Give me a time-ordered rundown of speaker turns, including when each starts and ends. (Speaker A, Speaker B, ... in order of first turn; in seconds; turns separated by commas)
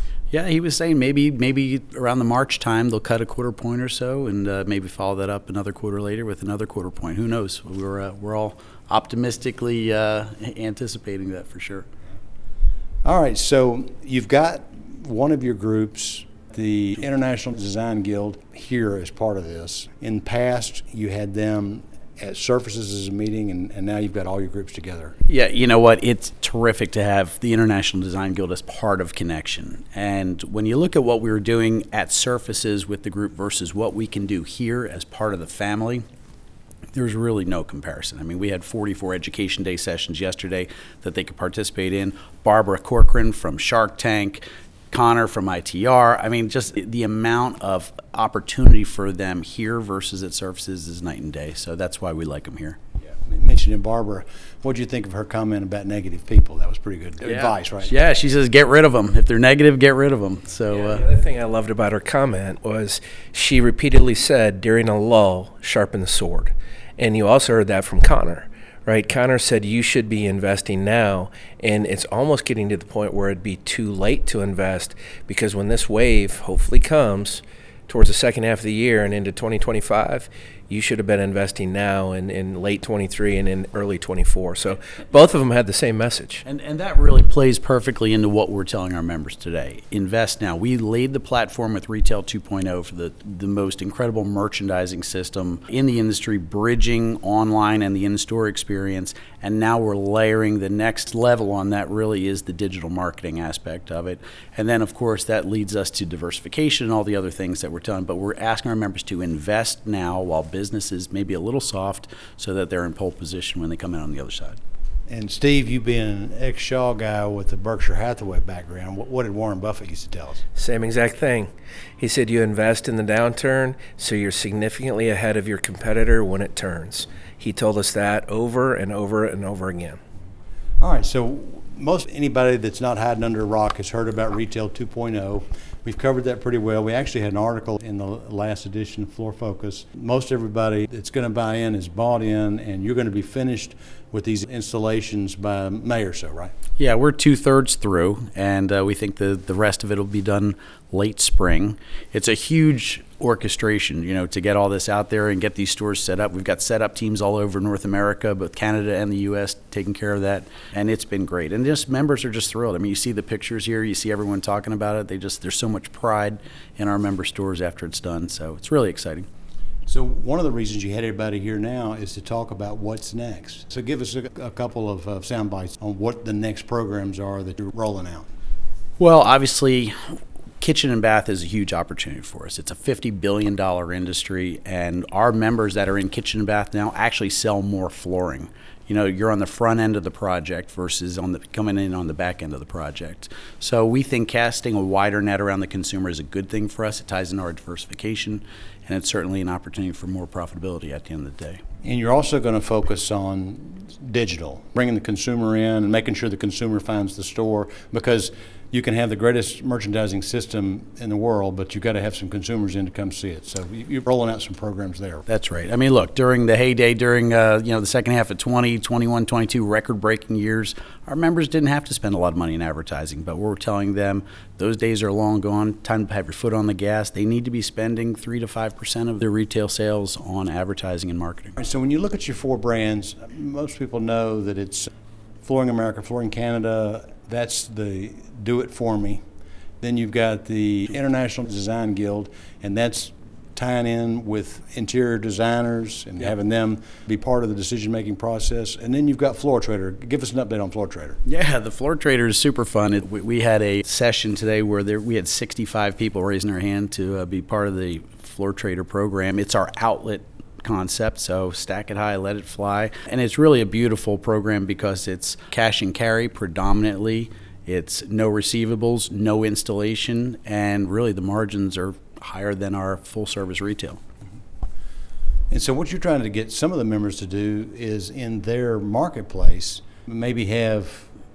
Speaker A: 0.3-11.8, Speaker B: 13.1-25.1, Speaker A: 25.3-36.0, Speaker A: 36.9-52.8, Speaker B: 53.2-57.9, Speaker A: 57.2-61.0, Speaker C: 60.7-86.4, Speaker A: 86.4-114.6, Speaker B: 115.1-120.4, Speaker C: 120.6-130.0, Speaker B: 130.8-146.5, Speaker A: 146.8-169.3, Speaker B: 169.9-178.3, Speaker A: 179.0-179.9, Speaker A: 180.6-201.6, Speaker B: 201.8-215.2, Speaker A: 215.3-231.6, Speaker B: 231.6-234.9, Speaker B: 235.4-239.2, Speaker B: 239.8-251.2, Speaker A: 251.2-274.0, Speaker B: 275.5-281.1